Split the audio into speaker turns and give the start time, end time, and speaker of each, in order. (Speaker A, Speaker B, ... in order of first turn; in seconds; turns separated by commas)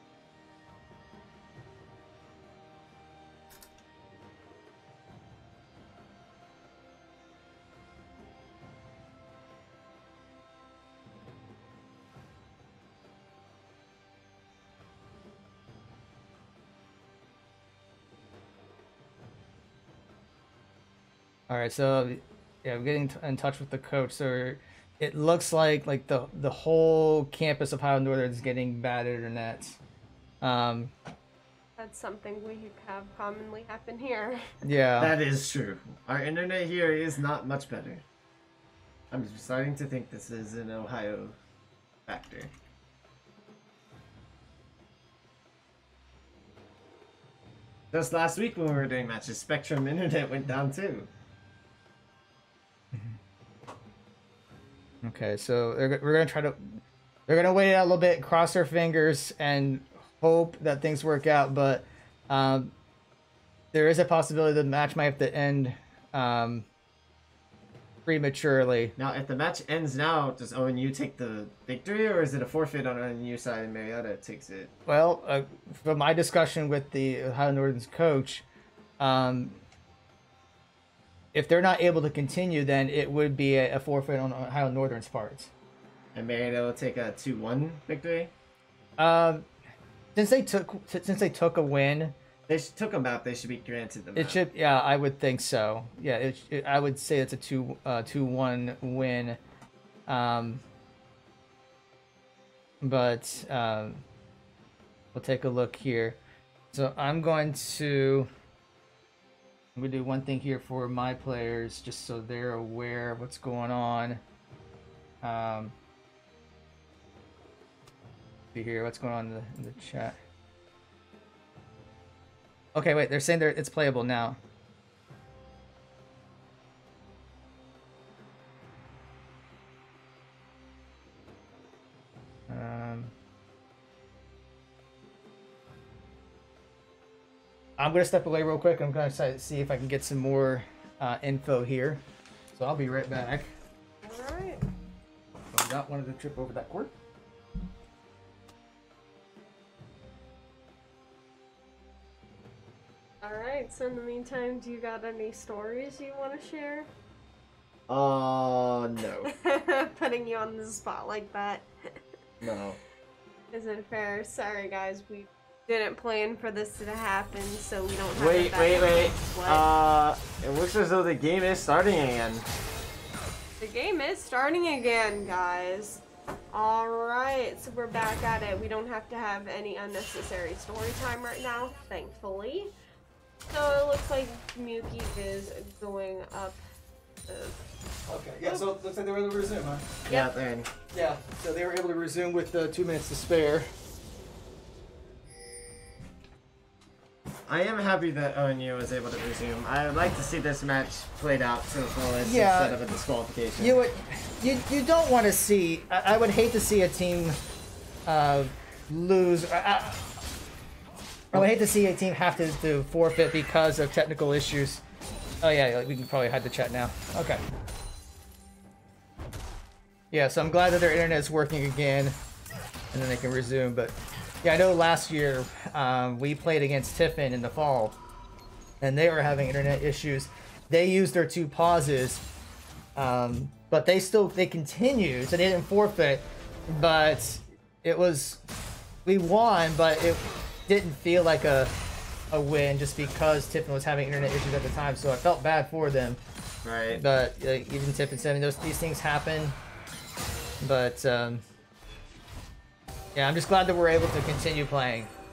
Speaker A: 21.5-29.8, Speaker A: 30.4-30.9, Speaker B: 31.8-34.5, Speaker A: 34.6-35.1, Speaker C: 35.0-38.0, Speaker C: 39.1-41.4, Speaker C: 42.1-42.5, Speaker C: 47.9-51.1, Speaker A: 52.9-53.2, Speaker A: 55.0-62.7, Speaker A: 63.7-66.7, Speaker A: 68.1-68.9, Speaker C: 69.0-74.7, Speaker A: 74.9-78.5, Speaker A: 79.0-79.6, Speaker A: 81.3-85.5, Speaker C: 86.2-88.3, Speaker A: 89.0-89.5, Speaker A: 90.2-92.2, Speaker C: 92.5-94.4, Speaker A: 94.2-99.4, Speaker A: 100.1-100.6, Speaker A: 102.8-104.0, Speaker A: 105.1-106.2, Speaker A: 106.7-108.3, Speaker A: 109.8-114.2, Speaker A: 115.2-115.7, Speaker A: 118.5-120.2, Speaker A: 122.8-124.4, Speaker A: 132.5-133.1, Speaker A: 137.8-142.0, Speaker A: 142.6-143.5, Speaker B: 144.0-144.6, Speaker A: 145.5-146.9, Speaker B: 153.2-156.9, Speaker C: 157.9-159.3, Speaker B: 159.2-162.0, Speaker C: 162.4-162.8, Speaker B: 163.5-169.6, Speaker C: 168.2-172.5, Speaker B: 173.6-182.7, Speaker B: 183.5-186.6, Speaker B: 187.3-187.6, Speaker A: 188.1-189.9, Speaker B: 188.4-188.7, Speaker C: 190.1-190.7, Speaker A: 190.9-193.7, Speaker C: 197.5-203.8, Speaker A: 202.2-202.8, Speaker A: 203.6-207.4, Speaker A: 208.1-210.1, Speaker A: 211.3-214.8, Speaker A: 215.4-217.4, Speaker A: 220.1-222.2, Speaker A: 222.9-228.0, Speaker A: 228.8-232.2, Speaker A: 233.0-238.4, Speaker A: 239.1-241.7, Speaker A: 242.3-246.2, Speaker C: 246.6-247.0, Speaker A: 246.9-249.6, Speaker A: 250.6-251.4, Speaker A: 253.2-255.1